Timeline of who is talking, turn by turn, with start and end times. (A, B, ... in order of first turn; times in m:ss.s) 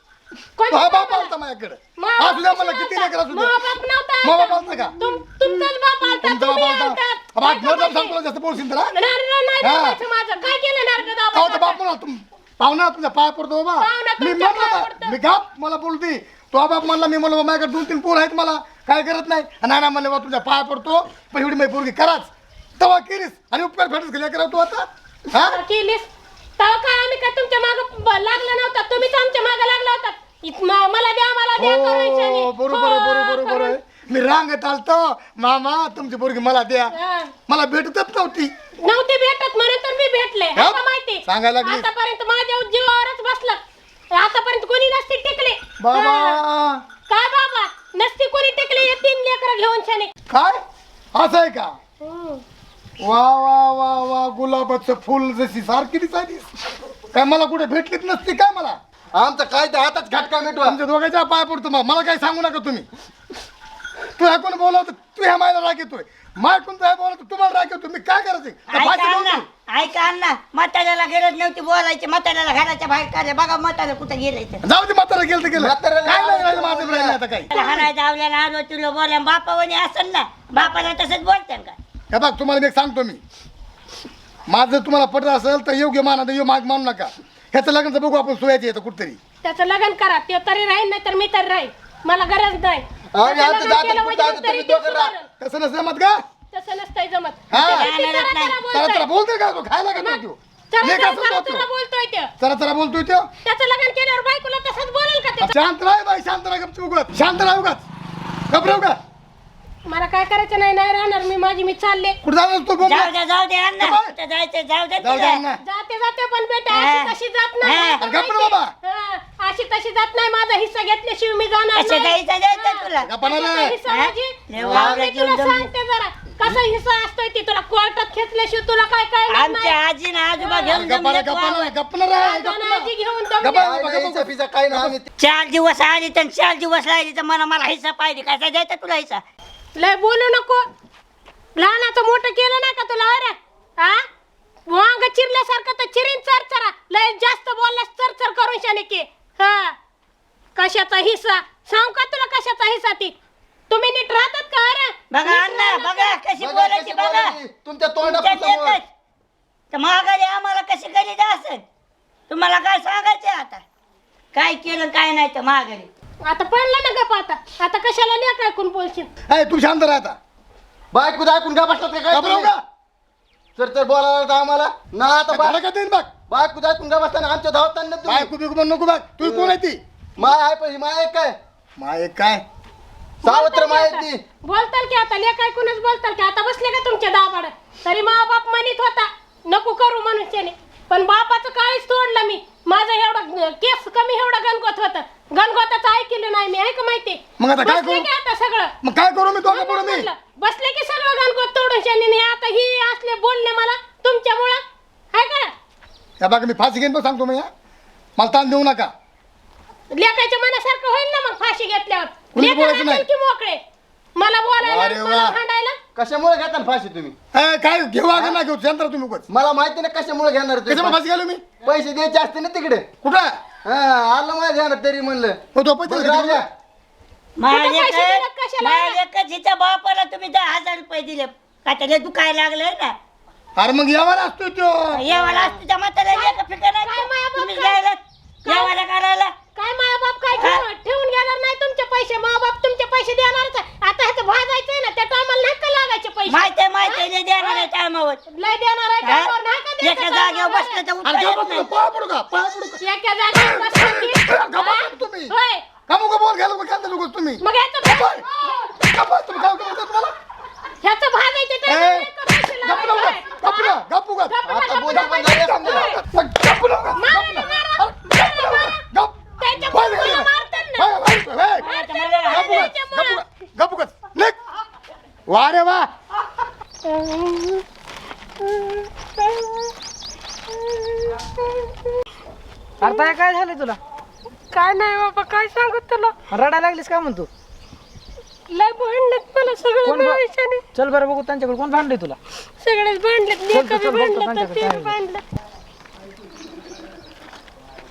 0:00.6-0:01.3 A
0:00.7-0:03.6 B
0:02.0-0:08.2 A
0:04.2-0:04.9 B
0:06.2-0:08.9 B
0:08.9-0:11.8 A
0:09.6-0:10.0 B
0:11.3-0:25.6 B
0:13.8-0:15.2 A
0:25.3-0:33.7 A
0:31.6-0:36.9 B
0:36.9-0:37.3 A
0:37.5-0:38.5 B
0:38.8-0:43.6 A
0:40.6-0:41.9 B
0:44.1-0:46.4 A
0:45.8-0:46.8 B
0:47.1-0:50.1 A
0:50.3-0:50.6 B
0:51.1-0:51.7 B
0:52.0-0:52.4 A
0:53.0-0:56.5 B
0:57.1-0:58.8 B
0:59.1-1:00.8 C
1:00.6-1:02.9 B
1:04.2-1:09.4 B
1:08.7-1:14.6 D
1:14.6-1:17.8 B
1:15.5-1:17.2 C
1:17.5-1:21.8 D
1:22.1-1:23.2 B
1:24.5-1:29.2 B
1:29.4-1:35.3 A
1:33.1-1:35.1 C
1:35.4-1:36.2 B
1:36.5-1:39.0 A
1:37.5-1:37.9 B
1:37.6-1:38.6 D
1:38.7-1:41.7 B
1:39.9-1:42.3 A
1:42.4-1:43.3 B
1:43.4-1:45.5 A
1:45.4-1:47.8 B
1:48.5-1:49.0 B
1:49.8-1:52.2 A
1:52.2-1:53.1 B
1:52.8-1:55.4 D
1:53.8-1:54.1 B
1:55.0-1:55.6 B
1:55.6-2:09.8 A
1:56.7-1:58.0 D
1:58.0-1:58.7 B
2:01.7-2:03.1 D
2:03.0-2:03.8 B
2:03.9-2:05.7 D
2:04.6-2:05.0 C
2:09.3-2:11.7 D
2:10.4-2:10.8 A
2:10.7-2:15.0 B
2:12.1-2:13.7 A
2:13.6-2:15.0 C
2:15.2-2:19.2 D
2:19.8-2:20.6 A
2:21.6-2:24.0 A
2:24.7-2:29.7 A
2:30.6-2:33.1 A
2:33.7-2:36.2 A
2:35.1-2:37.3 D
2:36.4-2:38.8 C
2:38.0-2:38.8 D
2:39.7-2:41.6 D
2:42.3-2:43.6 D
2:44.3-2:45.9 D
2:46.2-2:49.1 A
2:49.3-2:50.2 B
2:50.9-2:52.5 C
2:52.1-2:52.6 B
2:53.6-2:55.6 C
2:55.3-2:56.1 B
2:56.3-2:58.3 C
2:58.0-2:59.8 B
2:59.2-2:59.5 C
3:00.2-3:01.3 C
3:01.8-3:02.4 B
3:03.2-3:04.2 C
3:03.2-3:18.7 A
3:17.4-3:18.1 B
3:18.8-3:20.1 B
3:19.5-3:24.6 A
3:25.1-3:25.5 A
3:26.2-3:27.5 B
3:28.2-3:28.9 B
3:29.9-3:33.6 A
3:32.3-3:33.1 B
3:34.2-3:35.8 A
3:34.6-3:35.4 B
3:35.9-3:37.1 C
3:37.3-3:39.2 B
3:38.1-3:38.4 C
3:39.3-3:41.0 C
3:40.7-3:41.4 B
3:41.6-3:42.9 C
3:43.0-3:43.3 B
3:43.6-3:46.5 C
3:45.5-3:46.5 B
3:47.4-3:53.0 D
3:47.5-3:49.0 A
3:53.6-3:55.0 B
3:54.9-3:59.3 D
3:56.1-3:57.8 A
3:58.4-3:58.7 A
3:59.5-4:07.7 A
4:00.4-4:00.6 D
4:06.3-4:08.2 D
4:08.3-4:10.8 A
4:09.0-4:11.7 D
4:11.0-4:12.8 B
4:12.8-4:15.6 A
4:13.3-4:15.3 B
4:15.9-4:20.1 B
4:17.4-4:18.2 A
4:20.8-4:26.0 A
4:21.6-4:31.7 B
4:24.4-4:25.9 C
4:27.0-4:28.8 A
4:29.4-4:31.0 A
4:31.6-4:32.7 D
4:31.6-4:33.2 A
4:32.3-4:34.4 B
4:35.3-4:35.9 B
4:36.8-4:37.6 A
4:38.4-4:39.7 A
4:40.5-4:41.8 A
4:42.8-4:43.8 E
4:42.8-4:43.1 A
4:44.5-4:46.1 A
4:46.3-4:47.3 E
4:48.5-4:50.6 A
4:49.8-4:50.2 E
4:50.7-4:52.2 E
4:52.6-4:55.2 A
4:53.5-4:54.9 E